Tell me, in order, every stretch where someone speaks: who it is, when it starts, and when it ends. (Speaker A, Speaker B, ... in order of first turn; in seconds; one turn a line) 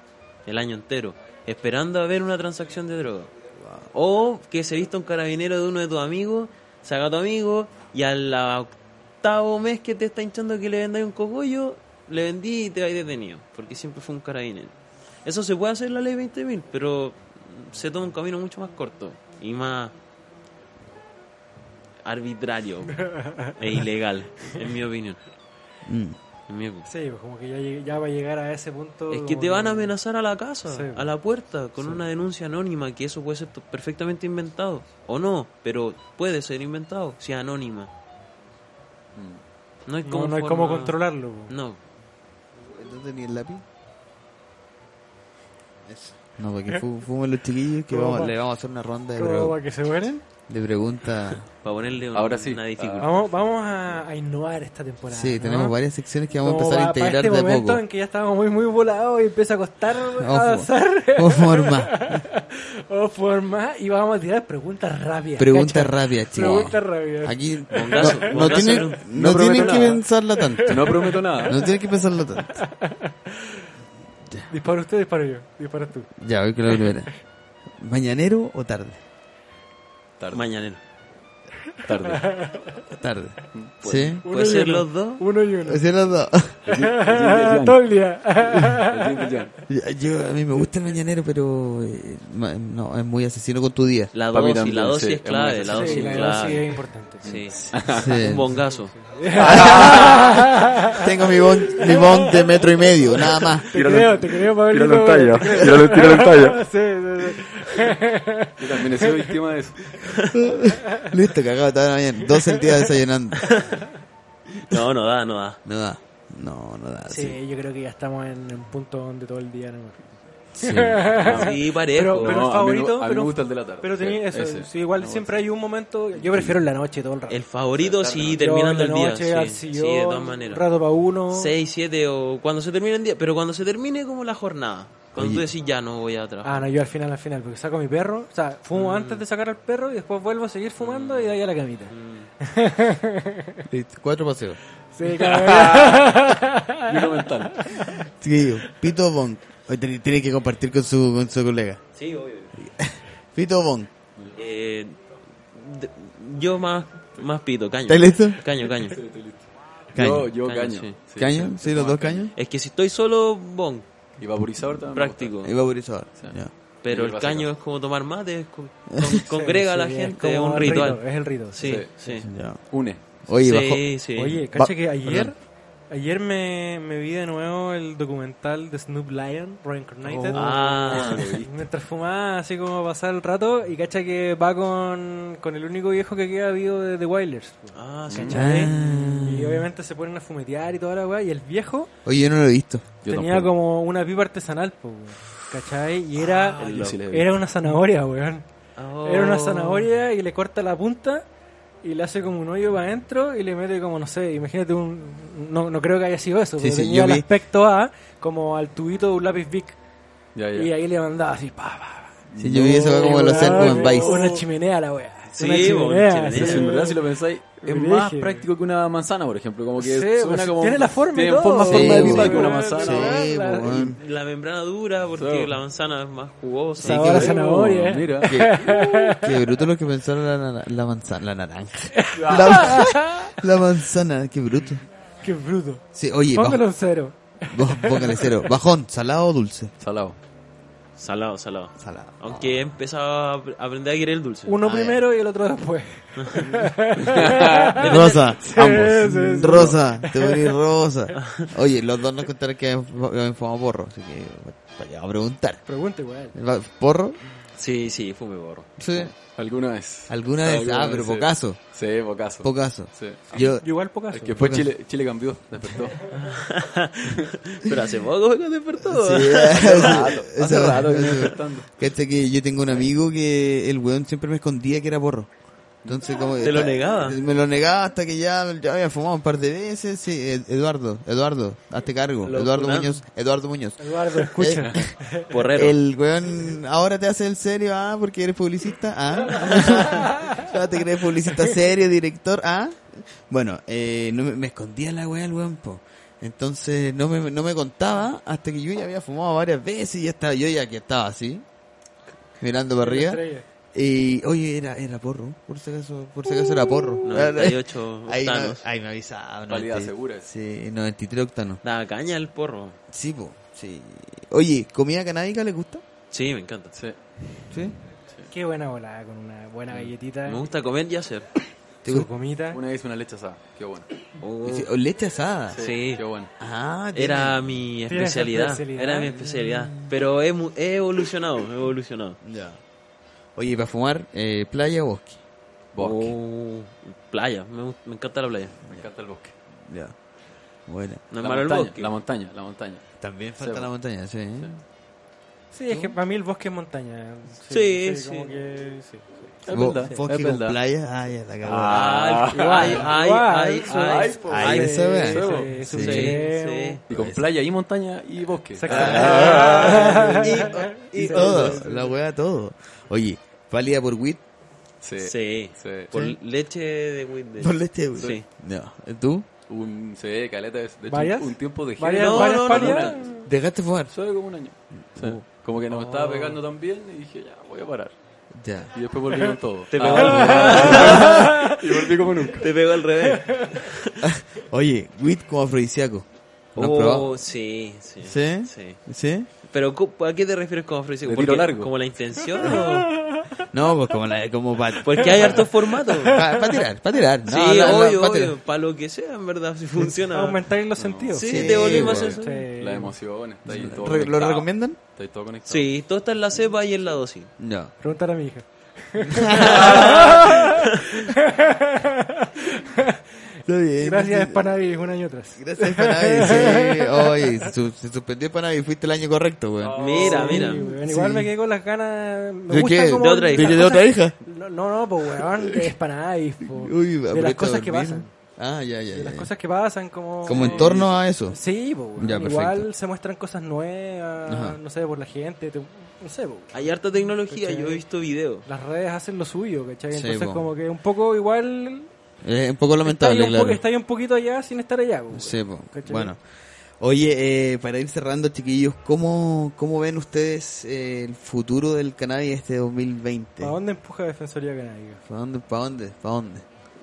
Speaker A: 0.5-3.3
Speaker B: 3.6-3.9
Speaker A: 3.9-19.9
Speaker A: 22.1-25.2
Speaker C: 23.0-23.7
Speaker B: 25.9-26.2
Speaker A: 26.5-26.9
Speaker C: 26.9-29.9
Speaker A: 29.1-37.9
Speaker C: 30.7-31.1
Speaker D: 39.2-39.4
Speaker A: 39.9-41.0
Speaker C: 40.0-41.6
Speaker A: 41.5-41.8
Speaker B: 42.7-43.6
Speaker B: 45.9-49.6
Speaker C: 47.9-48.4
Speaker C: 49.1-50.2
Speaker B: 50.5-51.5
Speaker A: 51.6-53.1
Speaker D: 52.1-53.2
Speaker C: 53.0-55.8
Speaker B: 55.1-57.8
Speaker C: 56.4-68.6
Speaker B: 60.1-62.2
Speaker B: 65.4-72.6
Speaker A: 67.7-69.1
Speaker D: 69.0-70.0
Speaker C: 70.5-71.7
Speaker D: 70.6-71.6
Speaker C: 72.5-73.7
Speaker C: 74.5-76.1
Speaker B: 76.2-77.1
Speaker C: 76.7-77.0
Speaker B: 77.8-79.0
Speaker D: 80.2-80.5
Speaker A: 80.3-80.8
Speaker D: 81.8-82.3
Speaker C: 82.1-82.8
Speaker B: 82.9-84.2
Speaker A: 83.8-85.2
Speaker C: 84.2-85.8
Speaker B: 85.6-86.6
Speaker D: 86.7-87.9
Speaker C: 86.7-89.3
Speaker D: 88.4-89.5
Speaker B: 89.7-94.1
Speaker A: 94.1-98.9
Speaker D: 94.3-96.6
Speaker C: 95.7-97.4
Speaker D: 97.2-98.2
Speaker B: 97.5-98.5
Speaker C: 98.6-109.3
Speaker B: 99.4-103.7
Speaker D: 99.5-100.1
Speaker D: 103.7-106.7
Speaker D: 108.6-109.9
Speaker A: 110.0-110.4
Speaker B: 110.3-113.6
Speaker C: 112.4-112.8
Speaker A: 113.4-113.8
Speaker A: 114.5-115.6
Speaker B: 115.7-117.4
Speaker C: 117.1-120.0
Speaker B: 120.5-121.1
Speaker C: 120.6-127.4
Speaker D: 121.2-121.5
Speaker A: 121.2-122.4
Speaker D: 122.1-125.4
Speaker D: 126.2-126.5
Speaker A: 127.3-130.6
Speaker D: 127.8-128.4
Speaker C: 128.4-131.6
Speaker A: 131.3-136.7
Speaker B: 135.2-135.5
Speaker C: 136.4-143.7
Speaker A: 138.7-139.2
Speaker A: 140.8-141.4
Speaker A: 141.9-142.3
Speaker B: 143.7-144.6
Speaker C: 144.9-148.0
Speaker D: 145.0-146.3
Speaker D: 146.9-147.7
Speaker B: 148.0-151.8
Speaker A: 151.9-152.6
Speaker B: 152.6-153.9
Speaker A: 154.4-159.0
Speaker B: 157.9-158.4
Speaker D: 158.8-162.3
Speaker B: 159.9-160.3
Speaker A: 160.4-161.0
Speaker B: 161.2-162.3
Speaker A: 162.3-163.9
Speaker D: 164.2-165.3
Speaker A: 164.9-165.5
Speaker B: 165.4-166.5
Speaker A: 166.8-172.3
Speaker D: 166.9-167.5
Speaker B: 168.9-169.2
Speaker C: 169.3-171.7
Speaker D: 171.6-173.2
Speaker B: 172.2-172.6
Speaker B: 173.2-173.9
Speaker A: 173.4-174.4
Speaker C: 174.2-175.4
Speaker B: 174.5-175.3
Speaker C: 175.9-191.9
Speaker D: 180.0-181.7
Speaker A: 180.3-181.3
Speaker A: 187.7-188.8
Speaker D: 188.1-188.8
Speaker B: 188.3-189.7
Speaker B: 192.1-192.9
Speaker D: 193.0-193.5
Speaker C: 193.1-198.4
Speaker A: 196.2-197.0
Speaker D: 196.6-197.3
Speaker A: 198.8-199.9
Speaker C: 199.0-201.2
Speaker C: 201.8-209.8
Speaker B: 206.6-207.3
Speaker D: 210.3-210.7
Speaker C: 210.5-217.0
Speaker D: 212.3-214.4
Speaker B: 212.4-214.2
Speaker A: 215.4-216.8
Speaker D: 216.3-223.2
Speaker C: 217.6-218.5
Speaker C: 219.8-223.9
Speaker B: 221.7-224.0
Speaker A: 223.6-227.4
Speaker D: 225.2-225.6
Speaker C: 226.8-229.4
Speaker B: 226.8-227.2
Speaker D: 226.8-229.0
Speaker B: 228.3-234.8
Speaker C: 231.9-233.4
Speaker D: 232.1-232.8
Speaker C: 235.2-238.4
Speaker B: 235.9-236.7
Speaker B: 237.5-239.7
Speaker D: 239.8-240.2
Speaker A: 241.0-244.6
Speaker B: 241.8-242.8
Speaker C: 244.5-250.6
Speaker B: 244.6-245.0
Speaker A: 246.2-246.5
Speaker D: 247.1-247.8
Speaker A: 247.8-248.3
Speaker B: 247.8-255.6
Speaker A: 251.2-251.5
Speaker C: 255.7-256.4
Speaker B: 256.3-257.2
Speaker A: 257.6-258.7
Speaker B: 258.8-259.1
Speaker D: 259.0-263.4
Speaker B: 260.1-261.6
Speaker B: 262.4-263.7
Speaker C: 263.3-264.4
Speaker D: 264.1-266.1
Speaker B: 264.4-264.7
Speaker A: 266.1-271.3
Speaker B: 268.8-275.3
Speaker D: 269.5-271.7
Speaker B: 275.9-284.9
Speaker A: 276.4-277.2
Speaker A: 282.2-283.0
Speaker C: 283.8-285.5
Speaker A: 285.3-285.8
Speaker B: 285.5-301.4
Speaker C: 289.5-290.4
Speaker B: 302.4-303.2
Speaker C: 302.8-303.4
Speaker B: 303.7-311.6
Speaker A: 307.1-308.6
Speaker D: 309.5-310.3
Speaker A: 311.6-312.8
Speaker B: 312.9-315.8
Speaker A: 316.1-316.7
Speaker D: 316.7-317.4
Speaker B: 317.5-317.8
Speaker C: 318.3-320.5
Speaker A: 320.2-321.3
Speaker B: 321.8-322.1
Speaker C: 321.9-322.6
Speaker D: 322.5-323.9
Speaker A: 324.2-324.7
Speaker B: 324.4-325.7
Speaker D: 325.5-326.3
Speaker A: 325.6-326.0
Speaker B: 326.4-327.4
Speaker A: 326.9-332.2
Speaker C: 327.9-329.1
Speaker B: 329.1-329.9
Speaker B: 332.2-332.6
Speaker B: 333.4-335.2
Speaker D: 335.7-336.1
Speaker A: 335.8-338.6
Speaker D: 338.7-339.3
Speaker B: 339.7-339.9
Speaker B: 340.7-341.0
Speaker A: 341.1-341.9
Speaker D: 341.2-342.8
Speaker B: 343.0-344.6
Speaker D: 343.4-343.7
Speaker C: 345.5-350.1
Speaker B: 345.7-345.9
Speaker A: 347.5-348.4
Speaker D: 349.4-350.6
Speaker B: 349.5-351.9
Speaker D: 351.4-352.9
Speaker A: 351.6-355.0
Speaker C: 352.3-356.8
Speaker D: 353.7-354.6
Speaker B: 354.2-356.2
Speaker D: 355.1-355.5
Speaker A: 355.8-356.8
Speaker D: 356.9-360.2
Speaker B: 356.9-357.2
Speaker C: 358.6-362.0
Speaker B: 358.7-360.0
Speaker A: 358.7-361.6
Speaker B: 360.9-364.2
Speaker D: 364.8-365.9
Speaker A: 365.0-368.2
Speaker B: 367.4-369.3
Speaker D: 369.5-373.3
Speaker C: 370.9-373.0
Speaker A: 371.9-373.0
Speaker B: 373.2-373.9
Speaker D: 373.9-377.9
Speaker B: 374.9-375.2
Speaker A: 375.7-376.4
Speaker B: 378.3-378.8
Speaker D: 378.7-382.5
Speaker A: 379.7-381.5
Speaker B: 379.9-381.1
Speaker C: 380.0-381.6
Speaker A: 382.3-384.1
Speaker C: 383.2-383.7
Speaker B: 384.0-387.2
Speaker A: 386.6-388.8
Speaker B: 388.0-389.3
Speaker A: 389.4-392.9
Speaker D: 391.1-391.7
Speaker C: 392.4-393.4
Speaker B: 393.5-395.5
Speaker A: 394.8-396.2
Speaker C: 395.7-396.6
Speaker B: 396.1-398.4
Speaker A: 397.3-400.4
Speaker C: 400.1-402.9
Speaker D: 400.8-401.2
Speaker A: 401.1-402.5
Speaker B: 401.2-402.2
Speaker D: 401.7-402.0
Speaker D: 402.6-405.7
Speaker B: 403.5-404.8
Speaker A: 405.5-407.3
Speaker B: 407.4-407.7
Speaker C: 407.8-413.2
Speaker B: 409.0-410.4
Speaker A: 409.3-410.9
Speaker B: 413.5-414.5
Speaker C: 413.8-417.5
Speaker B: 415.4-421.3
Speaker D: 419.6-420.5
Speaker A: 419.8-420.6
Speaker C: 420.0-428.1
Speaker B: 422.5-424.1
Speaker A: 423.0-423.7
Speaker B: 426.4-429.3
Speaker C: 428.9-430.7
Speaker D: 430.2-431.0
Speaker B: 430.2-431.4
Speaker C: 431.3-437.8
Speaker B: 432.0-432.7
Speaker B: 434.3-434.6
Speaker A: 436.5-438.5
Speaker C: 438.5-441.9
Speaker B: 439.9-440.5
Speaker B: 442.2-443.6
Speaker C: 442.9-446.1
Speaker B: 445.1-446.2
Speaker B: 446.8-453.6
Speaker C: 453.4-455.0
Speaker B: 455.1-456.4